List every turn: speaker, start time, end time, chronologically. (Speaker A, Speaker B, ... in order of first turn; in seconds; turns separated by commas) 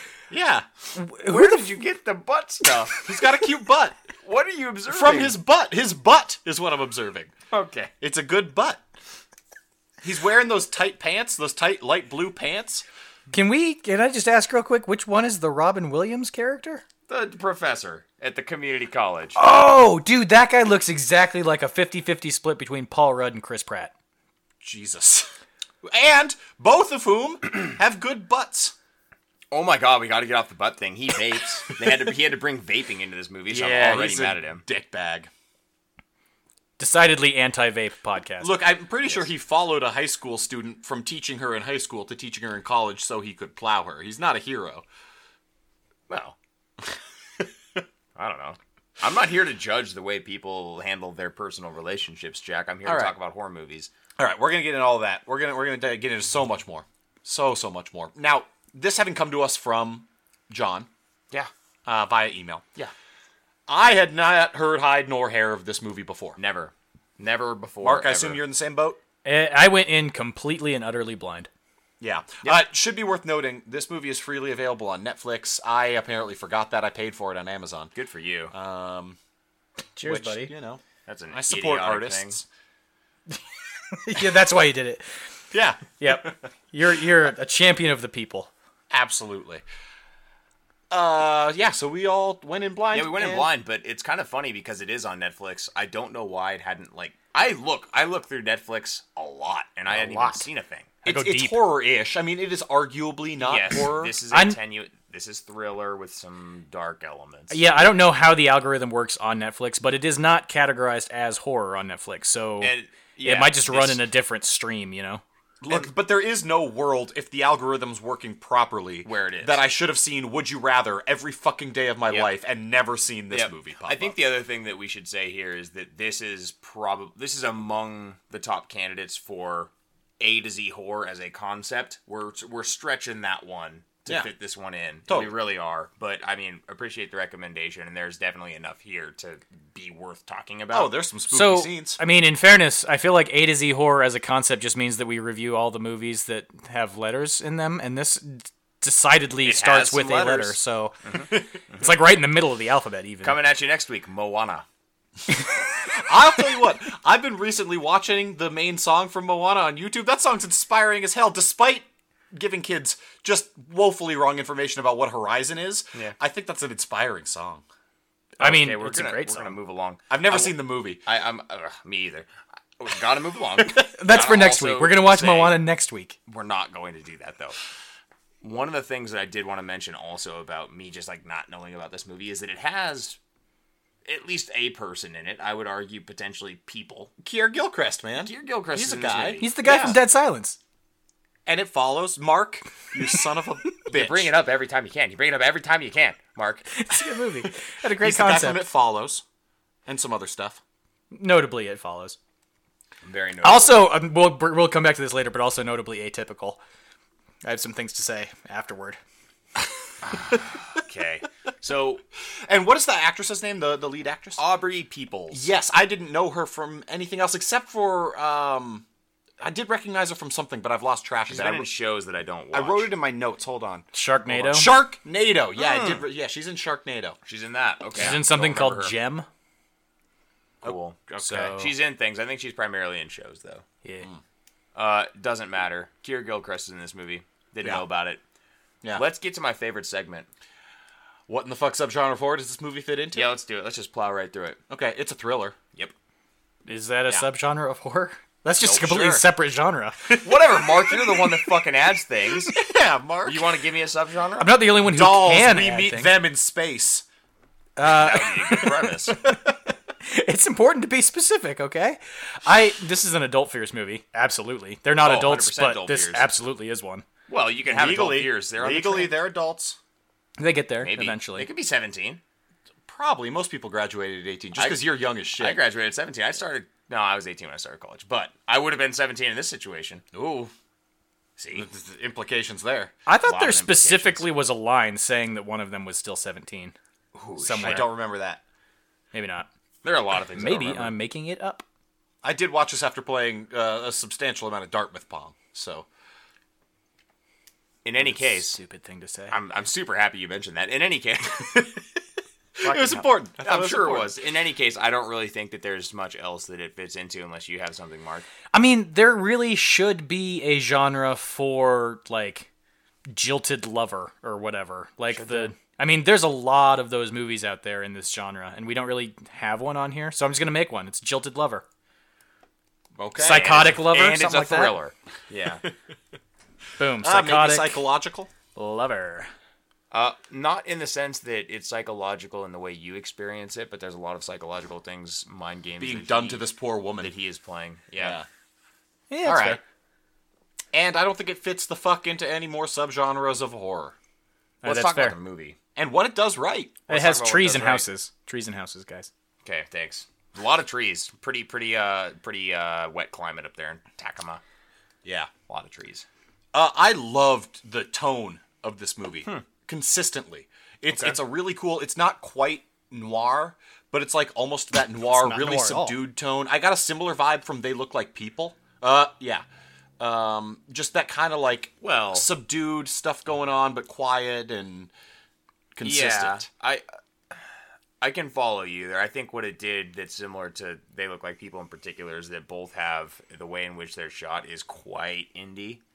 Speaker A: 0.3-0.7, Speaker B: 0.9-1.6, Speaker C: 1.3-3.1, Speaker A: 3.1-4.0, Speaker C: 4.2-5.4, Speaker A: 4.9-7.3, Speaker C: 7.5-7.9, Speaker A: 8.0-8.8, Speaker A: 10.0-12.8, Speaker B: 13.3-16.8, Speaker C: 17.1-19.4, Speaker B: 19.4-23.9, Speaker A: 24.6-25.3, Speaker A: 25.8-28.8, Speaker C: 29.5-34.6, Speaker A: 33.5-35.3, Speaker B: 36.8-38.6, Speaker A: 38.4-44.9, Speaker C: 46.1-46.4, Speaker C: 48.2-53.9, Speaker A: 52.9-53.1, Speaker A: 54.2-60.9, Speaker A: 61.9-62.6, Speaker A: 63.7-66.4, Speaker C: 66.4-68.4, Speaker A: 67.8-69.0, Speaker B: 69.2-71.5, Speaker A: 72.0-77.9, Speaker C: 78.0-78.5, Speaker A: 78.5-79.2, Speaker B: 80.0-80.5, Speaker A: 80.1-82.5, Speaker C: 81.1-82.4, Speaker B: 83.9-85.1, Speaker A: 85.5-86.4, Speaker B: 86.0-88.5, Speaker A: 88.9-89.6, Speaker A: 90.9-93.5, Speaker C: 92.9-100.9, Speaker B: 100.0-100.4, Speaker B: 101.0-101.6, Speaker A: 101.0-104.1, Speaker C: 103.4-107.6, Speaker B: 104.3-104.6, Speaker B: 107.5-112.7, Speaker C: 112.6-114.0, Speaker B: 113.2-115.2, Speaker A: 115.6-124.2, Speaker C: 119.0-119.6, Speaker C: 123.3-140.9, Speaker A: 135.1-135.3, Speaker A: 140.7-142.0, Speaker B: 141.3-151.0, Speaker C: 149.4-151.9, Speaker B: 151.7-153.4, Speaker C: 153.2-154.7, Speaker A: 155.9-167.6, Speaker B: 168.4-169.6, Speaker C: 168.4-175.6, Speaker A: 170.1-171.0, Speaker B: 173.8-176.2, Speaker C: 176.3-177.6, Speaker C: 178.4-183.2, Speaker C: 184.1-187.1, Speaker A: 187.2-189.4, Speaker C: 188.2-190.0, Speaker B: 189.4-190.6, Speaker A: 191.5-194.3, Speaker C: 193.9-196.7, Speaker B: 196.7-198.6, Speaker A: 197.4-199.2, Speaker A: 199.9-200.6, Speaker B: 201.1-202.2, Speaker C: 203.0-203.9, Speaker B: 203.4-206.6, Speaker B: 207.4-209.0, Speaker C: 210.0-212.0, Speaker A: 212.4-214.4, Speaker C: 214.4-215.5, Speaker A: 215.3-218.8, Speaker A: 219.4-221.7, Speaker C: 221.3-222.9, Speaker A: 222.5-227.2, Speaker B: 223.9-224.7, Speaker C: 225.6-226.0, Speaker C: 227.3-228.9, Speaker B: 228.0-229.3, Speaker C: 230.6-233.6, Speaker B: 231.2-231.7, Speaker C: 234.8-238.2, Speaker C: 238.9-240.3, Speaker A: 241.3-243.3, Speaker C: 243.1-244.6, Speaker A: 244.7-245.6, Speaker B: 246.7-250.2, Speaker C: 248.6-248.9, Speaker A: 248.6-249.2, Speaker A: 250.1-251.5, Speaker C: 250.2-252.6, Speaker A: 252.4-253.6, Speaker C: 253.2-254.7, Speaker B: 254.4-256.1, Speaker A: 254.8-257.1, Speaker B: 257.8-267.1, Speaker C: 257.8-259.2, Speaker C: 265.0-266.3, Speaker C: 267.3-269.2, Speaker A: 267.7-269.8, Speaker B: 270.4-271.5, Speaker C: 270.8-272.2, Speaker A: 272.9-275.6, Speaker C: 274.6-280.0, Speaker A: 280.1-280.5, Speaker C: 281.4-281.7, Speaker A: 281.5-282.9, Speaker B: 283.1-286.8, Speaker C: 283.2-284.3, Speaker C: 287.1-287.9, Speaker B: 287.4-287.9, Speaker A: 287.6-288.4, Speaker B: 289.1-289.5, Speaker C: 289.8-290.9, Speaker B: 290.4-291.6, Speaker A: 292.2-295.9, Speaker C: 297.9-298.6, Speaker B: 298.0-299.4, Speaker C: 299.3-301.8, Speaker A: 302.6-304.1, Speaker C: 302.6-308.3, Speaker B: 308.5-312.5, Speaker B: 313.1-321.6, Speaker C: 315.1-315.5, Speaker A: 323.0-323.6, Speaker B: 323.2-324.7, Speaker C: 323.3-325.6, Speaker B: 326.8-327.8, Speaker A: 327.0-328.3, Speaker B: 328.6-329.3, Speaker C: 329.9-336.4, Speaker A: 335.8-337.1, Speaker C: 337.0-338.2, Speaker A: 338.0-338.3, Speaker B: 339.1-339.6, Speaker A: 339.2-339.6, Speaker A: 340.7-343.9, Speaker B: 344.6-345.2, Speaker C: 344.6-345.6, Speaker A: 345.8-346.8, Speaker C: 346.9-347.9, Speaker B: 346.9-349.1, Speaker C: 349.4-354.4, Speaker A: 355.1-355.3, Speaker C: 355.5-356.1, Speaker A: 356.5-369.4, Speaker C: 360.9-361.2, Speaker B: 365.1-366.0, Speaker A: 370.0-374.9, Speaker C: 371.8-372.3, Speaker A: 375.8-376.5, Speaker C: 375.8-377.4, Speaker C: 378.0-385.8